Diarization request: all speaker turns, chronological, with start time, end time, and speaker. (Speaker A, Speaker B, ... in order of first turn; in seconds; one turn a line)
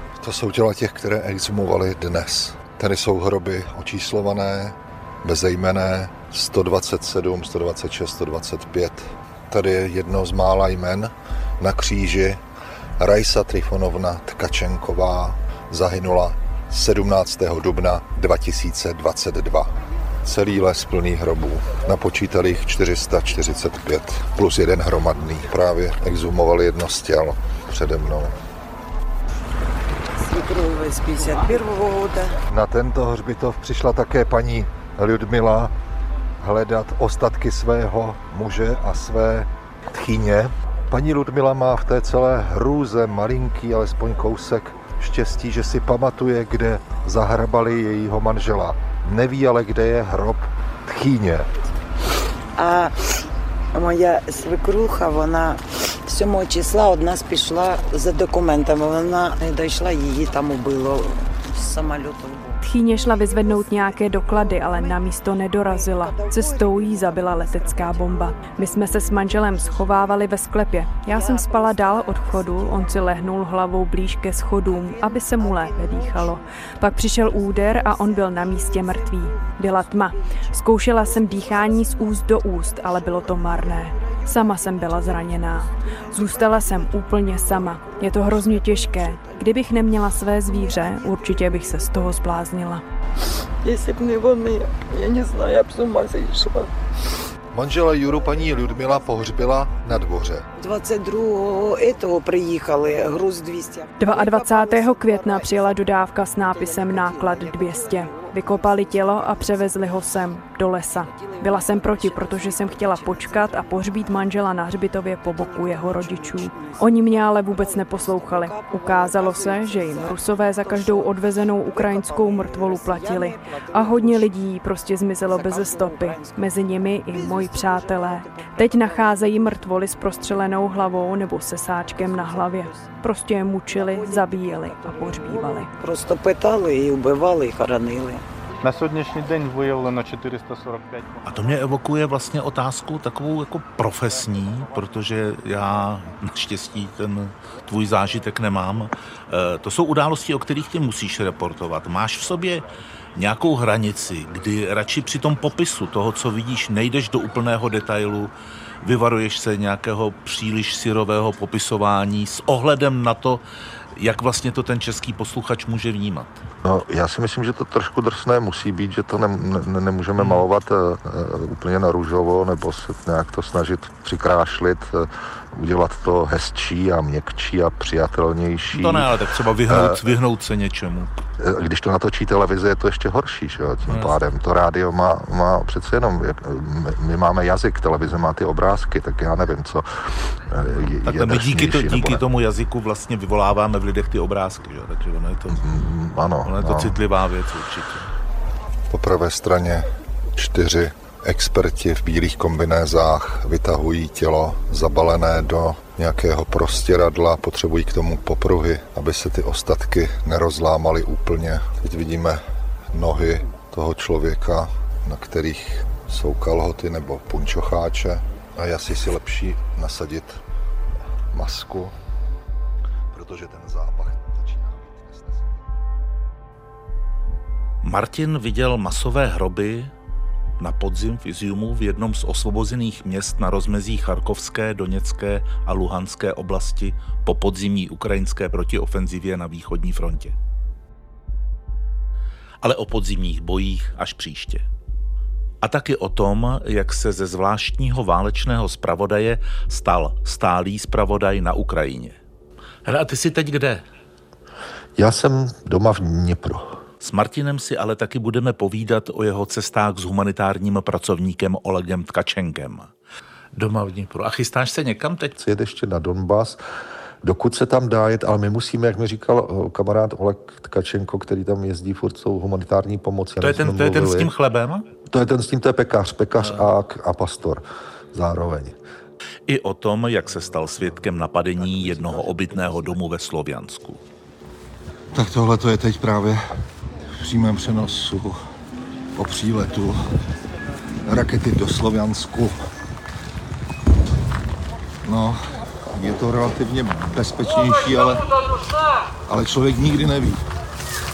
Speaker A: 0.2-12.4
Speaker A: 13.0-19.7
Speaker A: 20.2-28.3
Speaker B: 30.1-32.4
Speaker A: 32.5-35.7
Speaker A: 36.4-51.5
Speaker B: 52.5-53.0
Speaker B: 53.7-62.5
Speaker C: 62.6-92.8
Speaker B: 93.6-96.7
Speaker A: 97.5-100.5
Speaker B: 100.6-103.9
Speaker C: 104.0-135.7
Speaker B: 105.1-105.4
Speaker B: 107.0-107.4
Speaker B: 118.5-119.3
Speaker B: 121.8-124.2
Speaker B: 125.3-126.3
Speaker B: 127.1-128.3
Speaker B: 133.7-138.2
Speaker D: 138.6-141.3
Speaker E: 141.2-158.3
Speaker E: 158.8-163.4
Speaker E: 163.9-166.4
Speaker F: 166.6-179.1
Speaker E: 170.2-170.4
Speaker E: 178.7-181.1
Speaker F: 179.7-180.1
Speaker F: 181.4-189.9
Speaker E: 183.9-184.2
Speaker F: 190.5-192.2
Speaker E: 191.0-195.6
Speaker F: 195.5-197.0
Speaker E: 196.4-198.1
Speaker A: 198.9-199.8
Speaker A: 200.3-212.4
Speaker A: 212.9-220.4
Speaker A: 221.3-221.9
Speaker A: 223.1-225.5
Speaker E: 227.8-229.9
Speaker E: 230.6-240.3
Speaker E: 242.6-244.6
Speaker E: 245.6-252.2
Speaker E: 252.8-253.8
Speaker F: 254.9-256.8
Speaker E: 257.0-262.9
Speaker E: 263.5-265.4
Speaker F: 265.4-266.6
Speaker F: 267.2-274.3
Speaker E: 273.4-274.9
Speaker F: 275.1-278.7
Speaker E: 276.4-276.7
Speaker E: 279.5-284.0
Speaker A: 285.1-286.4
Speaker A: 287.2-288.4
Speaker A: 289.1-290.0
Speaker A: 291.1-292.6
Speaker A: 295.0-295.4
Speaker A: 295.9-298.2
Speaker A: 299.3-300.4